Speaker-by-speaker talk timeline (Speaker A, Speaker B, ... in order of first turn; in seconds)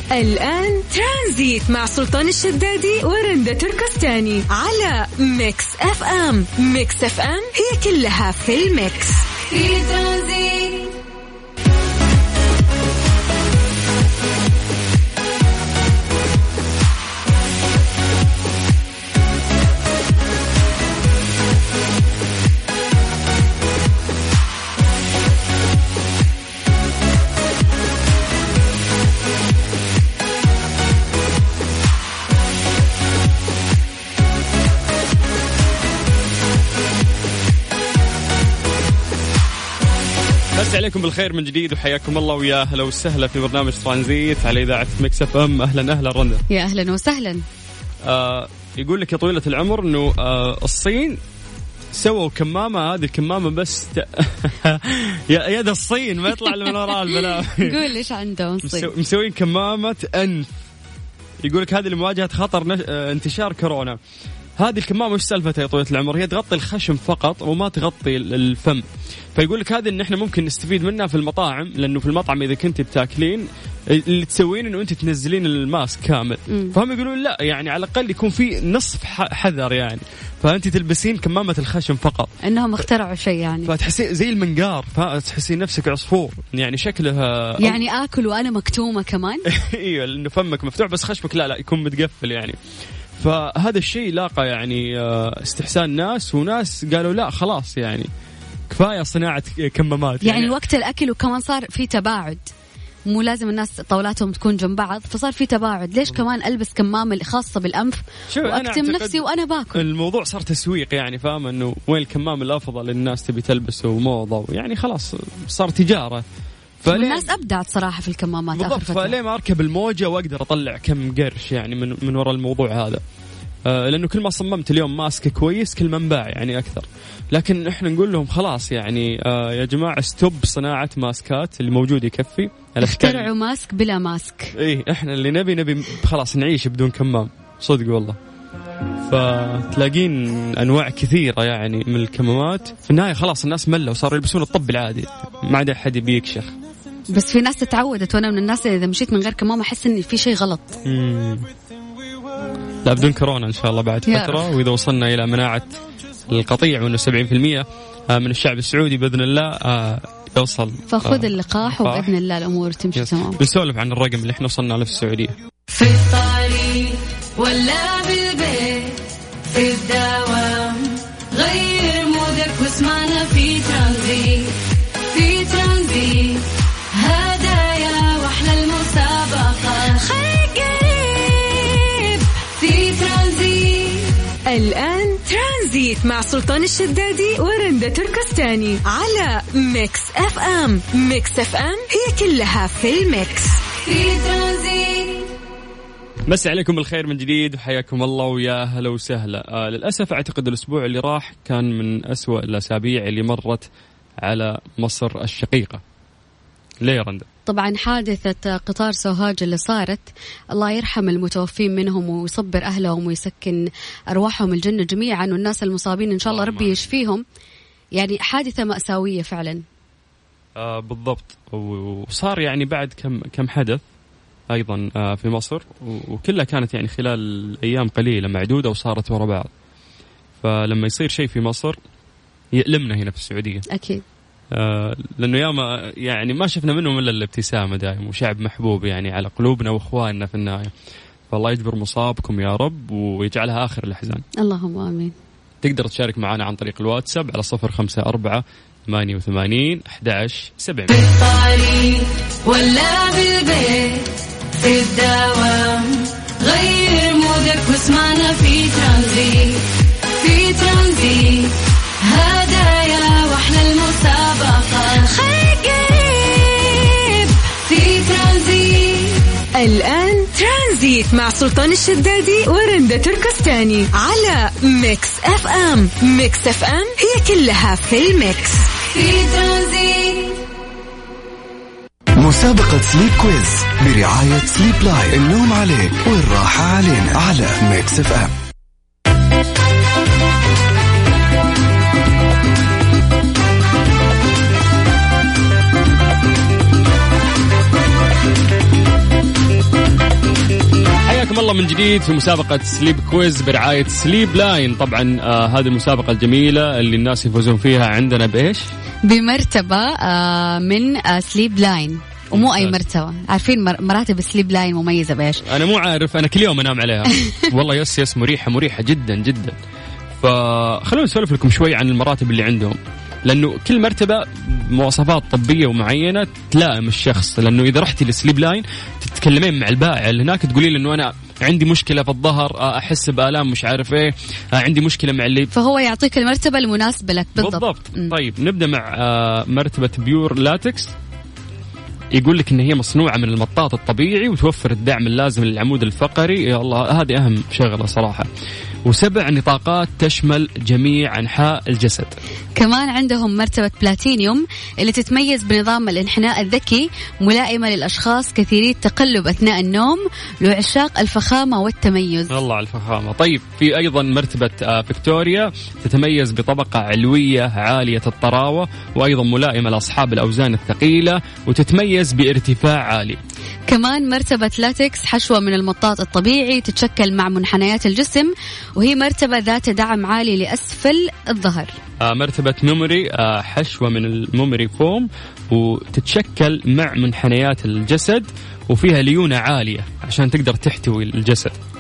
Speaker A: 0.1-9.2, 180.0-182.3, 184.5-193.6, 265.0-267.4, 269.6-278.7
Speaker B: 9.5-11.0, 165.7-174.6, 175.1-180.0, 182.6-184.1, 193.8-195.3, 250.9-265.1, 267.6-269.2, 278.9-280.4
Speaker C: 40.5-46.4, 48.0-51.2, 51.9-57.8, 58.6-60.5, 61.4-64.0, 64.6-82.3, 83.7-87.8, 89.5-92.6, 93.2-98.1, 98.7-100.5, 108.3-116.2, 116.8-117.3, 118.5-123.0, 123.7-133.3, 134.6-138.2, 139.1-146.5, 150.8-151.5, 152.8-155.8, 156.3-162.1, 162.9-165.3, 196.3-203.7, 204.2-205.8, 206.8-207.3, 216.3-216.9, 220.6-223.8, 224.5-229.5, 230.4-231.8, 232.6-233.6, 234.5-240.7, 241.3-244.2, 245.6-250.9, 301.1-308.6, 312.3-312.8, 315.5-319.6, 320.2-335.5, 337.4-340.9, 342.1-348.3, 348.9-352.2, 362.3-373.2, 382.0-391.5
Speaker D: 46.5-47.4, 57.1-58.9, 76.5-76.8, 82.4-83.7, 87.6-89.4, 100.2-102.4, 103.1-109.8, 116.9-119.2, 132.8-134.5, 147.1-150.8, 154.1-154.5, 160.9-163.4, 207.5-217.2, 218.0-219.6, 233.7-234.0, 244.4-245.1, 309.1-315.4, 335.5-338.1, 352.6-362.3, 373.7-381.7
Speaker E: 282.2-288.3